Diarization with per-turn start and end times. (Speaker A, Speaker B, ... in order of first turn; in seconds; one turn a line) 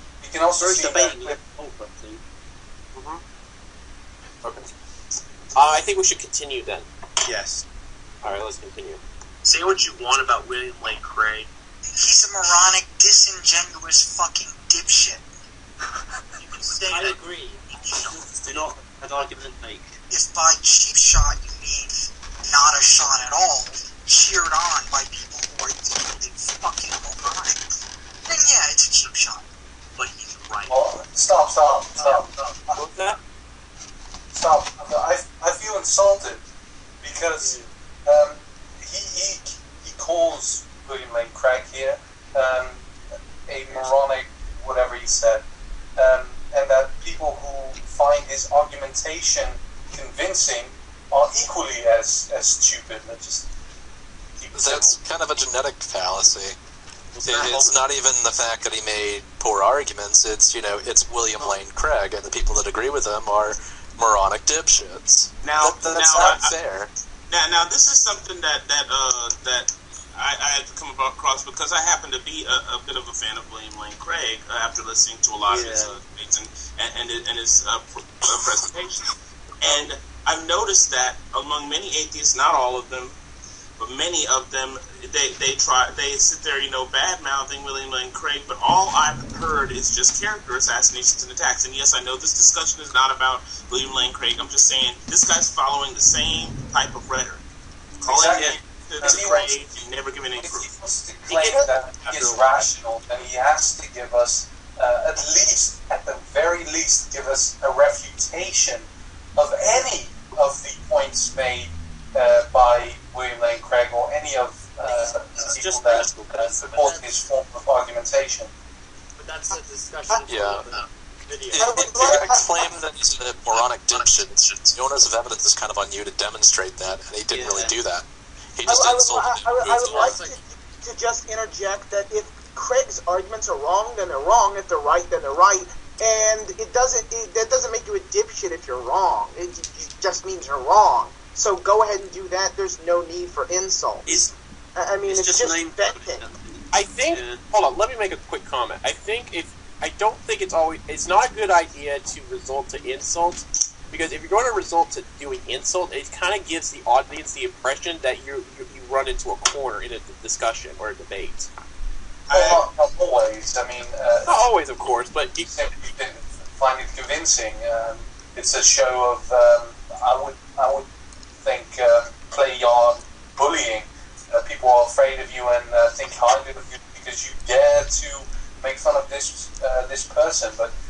Speaker A: 0.2-1.4
Speaker B: 0.6-2.2
Speaker C: 3.0-3.2
Speaker C: 4.4-4.7
Speaker C: 5.5-6.9
Speaker B: 7.3-7.6
Speaker C: 8.2-9.0
Speaker D: 9.4-11.5
Speaker E: 12.0-15.2
Speaker D: 16.4-17.2
Speaker F: 16.9-17.6
Speaker B: 18.2-20.0
Speaker E: 20.1-27.6
Speaker E: 28.3-29.4
Speaker D: 30.0-30.8
Speaker A: 30.7-32.3
Speaker C: 32.7-33.2
Speaker A: 34.3-36.4
Speaker A: 37.0-42.9
Speaker A: 43.5-45.5
Speaker A: 46.0-53.5
Speaker A: 54.4-55.0
Speaker G: 54.5-56.6
Speaker B: 57.1-57.8
Speaker G: 57.2-66.9
Speaker H: 65.4-66.5
Speaker A: 65.7-66.4
Speaker H: 67.3-79.1
Speaker B: 75.5-76.0
Speaker H: 79.6-83.1
Speaker H: 83.8-97.4
Speaker A: 98.0-99.7
Speaker H: 98.0-100.7
Speaker B: 98.2-98.5
Speaker A: 100.4-118.5
Speaker B: 101.3-101.6
Speaker B: 114.8-117.0
Speaker F: 116.7-117.1
Speaker F: 119.2-121.8
Speaker G: 120.3-120.7
Speaker G: 121.5-130.2
Speaker I: 121.6-122.6
Speaker B: 127.3-127.8
Speaker I: 128.7-144.2
Speaker F: 129.7-130.4
Speaker I: 144.8-146.2
Speaker B: 145.1-147.4
Speaker C: 146.7-161.5
Speaker A: 162.3-164.5
Speaker H: 162.3-162.6
Speaker C: 164.3-165.6
Speaker A: 165.4-170.9
Speaker A: 171.4-180.7